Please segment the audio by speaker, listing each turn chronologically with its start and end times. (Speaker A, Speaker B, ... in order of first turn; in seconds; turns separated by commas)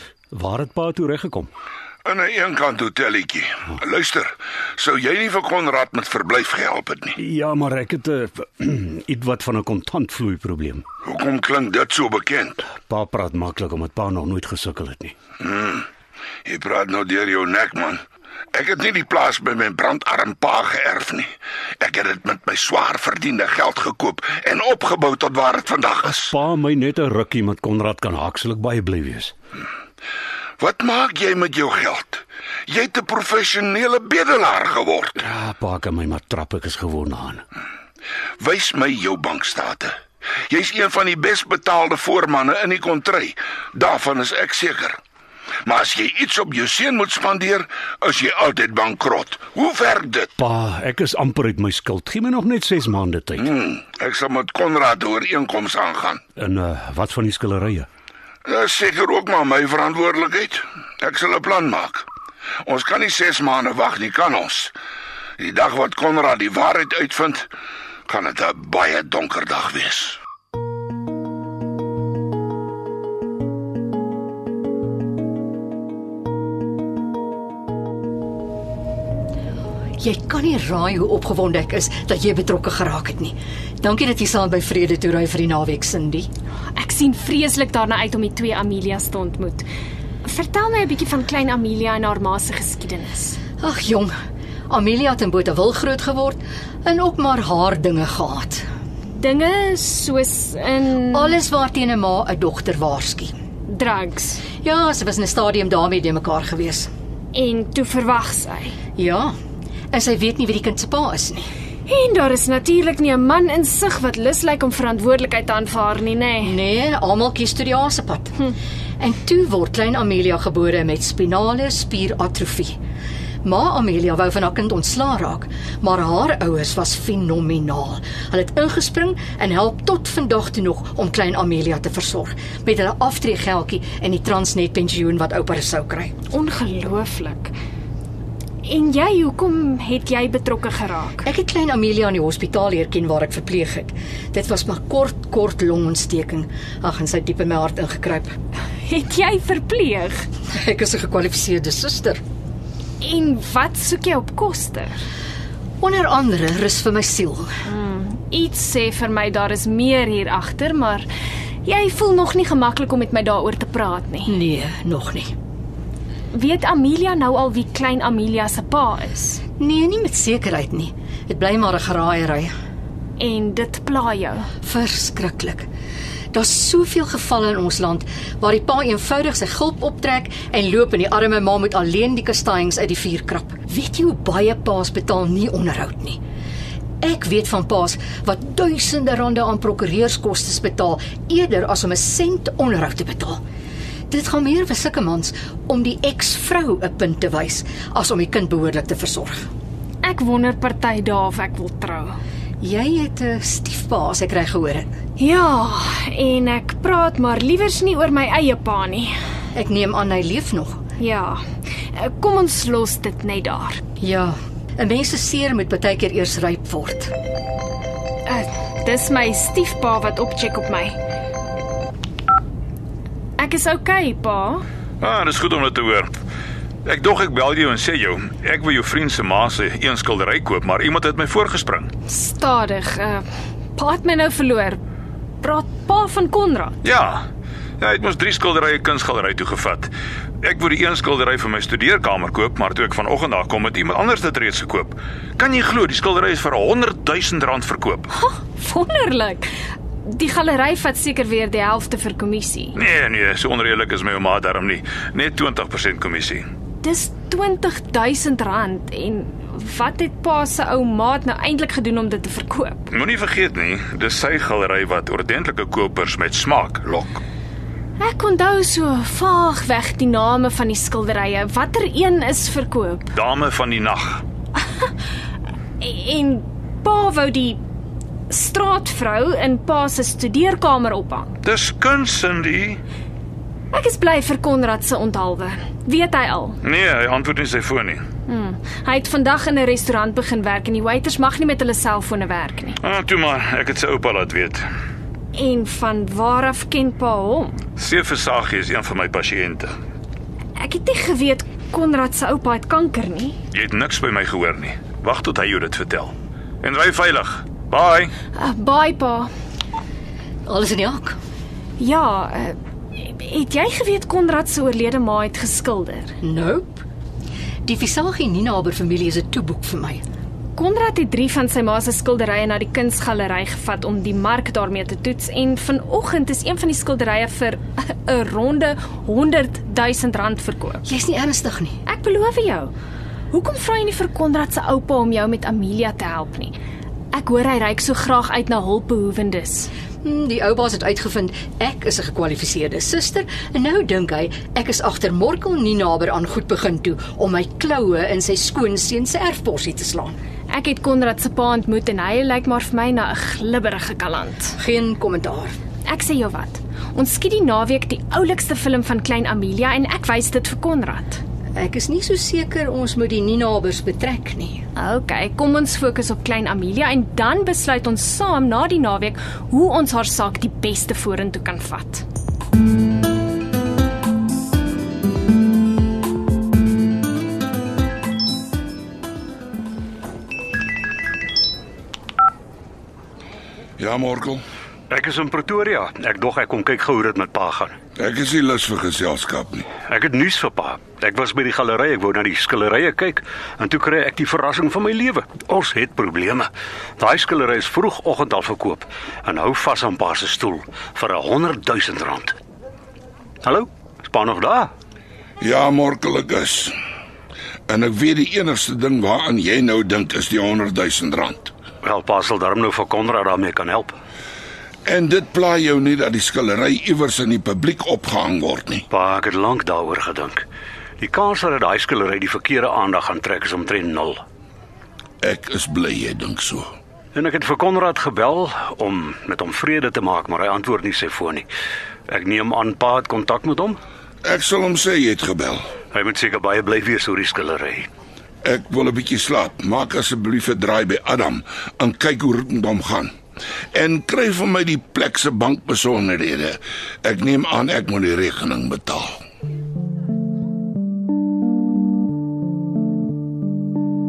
Speaker A: 0.3-1.5, Speaker B: 2.0-7.2, Speaker A: 7.2-10.9, Speaker B: 11.1-12.6, Speaker A: 12.8-15.2, Speaker B: 15.4-15.9, Speaker B: 16.5-18.0, Speaker B: 18.5-26.3, Speaker A: 26.1-29.3, Speaker B: 30.6-35.2, Speaker A: 35.2-37.4, Speaker B: 38.4-39.9, Speaker B: 40.5-45.0, Speaker B: 45.7-50.3, Speaker A: 50.4-53.5, Speaker B: 53.4-56.2, Speaker A: 56.4-57.9, Speaker B: 58.5-62.1, Speaker B: 62.6-64.7, Speaker B: 65.4-67.5, Speaker B: 68.1-70.2, Speaker C: 80.0-86.3, Speaker D: 86.8-89.7, Speaker D: 90.2-93.4, Speaker C: 93.6-94.1, Speaker C: 94.7-98.6, Speaker D: 99.2-101.3, Speaker C: 101.1-103.3, Speaker D: 103.7-104.4, Speaker C: 104.6-106.9, Speaker D: 107.3-108.8, Speaker C: 109.0-109.3, Speaker C: 109.9-111.5, Speaker D: 111.9-116.6, Speaker C: 116.4-118.4, Speaker C: 119.0-122.8, Speaker C: 123.4-136.1, Speaker D: 136.3-137.5, Speaker D: 138.6-141.2, Speaker C: 141.2-148.3, Speaker D: 148.8-150.2, Speaker C: 150.5-152.2, Speaker D: 153.0-155.0, Speaker C: 155.8-157.5, Speaker D: 157.7-161.1, Speaker D: 161.7-164.4, Speaker C: 164.3-165.3, Speaker D: 166.3-169.4, Speaker C: 169.6-172.5, Speaker D: 173.2-174.5, Speaker C: 174.6-175.7, Speaker C: 176.3-186.2, Speaker C: 187.0-193.4, Speaker C: 194.1-199.4, Speaker D: 200.0-202.2, Speaker C: 202.6-204.9, Speaker D: 205.2-209.1, Speaker C: 209.5-210.8, Speaker D: 211.0-213.8, Speaker C: 214.0-217.1, Speaker D: 218.3-221.0, Speaker D: 223.4-224.6, Speaker E: 225.0-226.1, Speaker E: 226.8-231.9, Speaker D: 232.1-234.8, Speaker D: 235.4-236.8, Speaker E: 236.8-237.2, Speaker E: 237.8-248.1, Speaker D: 248.1-249.5, Speaker D: 250.0-252.8, Speaker E: 252.8-256.4, Speaker D: 256.8-262.9, Speaker E: 262.9-267.2, Speaker D: 268.0-273.2, Speaker E: 273.1-274.2, Speaker D: 275.8-277.6, Speaker D: 278.3-281.4, Speaker E: 281.4-282.8, Speaker D: 283.7-286.6, Speaker E: 286.6-288.0, Speaker D: 288.3-292.8, Speaker E: 292.8-294.7, Speaker D: 295.3-297.6, Speaker E: 297.8-299.7, Speaker D: 300.6-303.4, Speaker E: 303.5-308.1, Speaker D: 308.3-309.3, Speaker C: 310.5-311.2, Speaker D: 311.8-316.1, Speaker C: 316.2-316.8, Speaker C: 317.6-320.0, Speaker D: 320.6-330.8, Speaker C: 330.9-331.8, Speaker D: 331.9-332.7, Speaker D: 333.3-336.5, Speaker D: 337.1-339.7, Speaker C: 340.0-350.2, Speaker D: 350.5-354.6, Speaker C: 354.6-355.5, Speaker D: 355.9-361.2, Speaker C: 361.6-364.6, Speaker D: 364.8-372.1, Speaker B: 383.8-384.4, Speaker A: 384.9-387.8, Speaker B: 388.0-389.7, Speaker A: 389.8-402.4, Speaker A: 403.4-404.7, Speaker B: 405.4-406.7, Speaker B: 407.7-411.5, Speaker A: 411.8-414.0, Speaker B: 414.9-418.9, Speaker A: 418.9-420.4, Speaker A: 421.0-424.2, Speaker B: 425.2-426.7, Speaker A: 427.1-431.5, Speaker A: 432.1-433.8, Speaker B: 434.2-435.6, Speaker A: 435.9-437.9, Speaker B: 438.4-443.1, Speaker B: 443.7-449.2